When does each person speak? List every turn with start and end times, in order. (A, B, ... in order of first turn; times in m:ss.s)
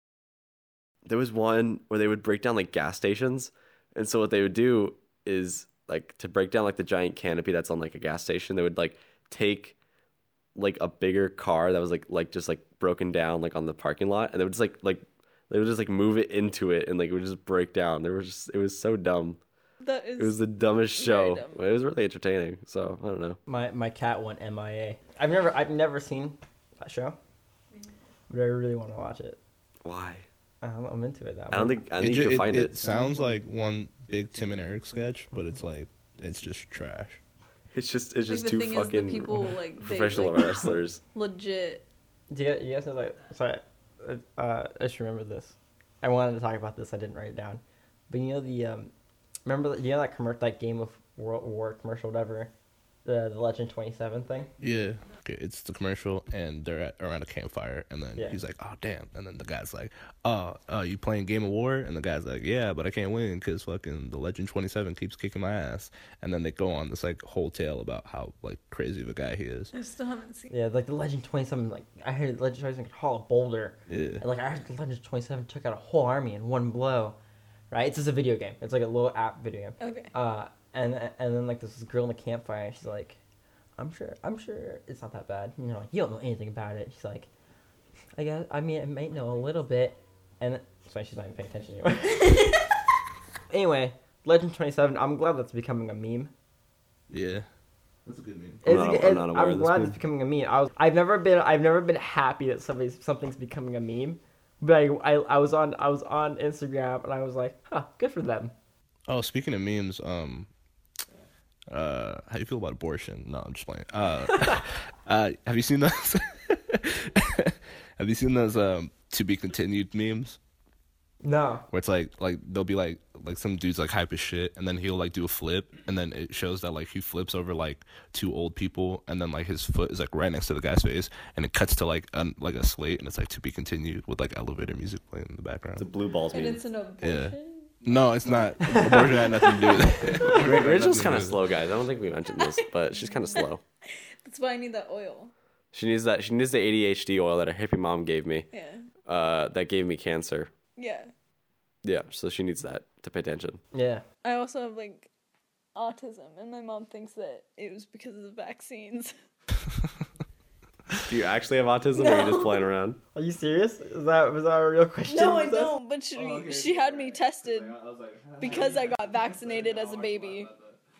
0:01.0-0:09.8 A
0:10.6-0:19.4 A
0:19.8-0:20.4 B
0:20.2-0:23.4 A
0:21.0-0:21.6 B
0:23.5-0:27.2 C
0:28.3-0:29.4 C
0:29.8-0:30.2 A
0:30.6-0:31.8 C
0:31.5-0:32.7 A
0:32.0-0:37.2 D
0:37.7-0:41.0 A
0:38.3-0:41.8 B
0:42.3-0:48.9 C
0:49.4-0:52.5 C
0:53.0-0:54.5 C
0:54.6-1:09.7 D
1:09.7-1:10.5 B
1:10.5-1:17.2 C
1:13.9-1:14.2 D
1:17.7-1:23.2 C
1:19.8-1:20.1 B
1:23.8-1:27.3 C
1:28.2-1:32.6 C
1:33.5-1:36.3 C
1:37.1-1:37.4 D
1:38.1-1:38.6 D
1:38.6-1:48.5 C
1:38.6-1:40.0 A
1:49.1-1:50.5 D
1:51.7-2:00.4 D
2:01.2-2:01.6 C
2:01.7-2:15.9 D
2:15.8-2:16.6 A
2:16.3-2:17.7 B
2:17.0-2:21.5 D
2:18.6-2:19.9 C
2:19.5-2:19.9 B
2:20.1-2:23.6 A
2:22.3-2:25.3 B
2:25.7-2:28.5 A
2:28.5-2:28.9 B
2:29.0-2:30.5 A
2:30.8-2:31.1 B
2:31.8-2:33.6 A
2:33.7-2:34.0 C
2:34.2-2:35.1 B
2:35.7-2:39.1 B
2:41.0-2:43.0 A
2:41.9-2:42.7 B
2:43.1-2:45.7 C
2:45.1-2:47.8 B
2:46.1-2:50.8 D
2:48.4-2:50.5 B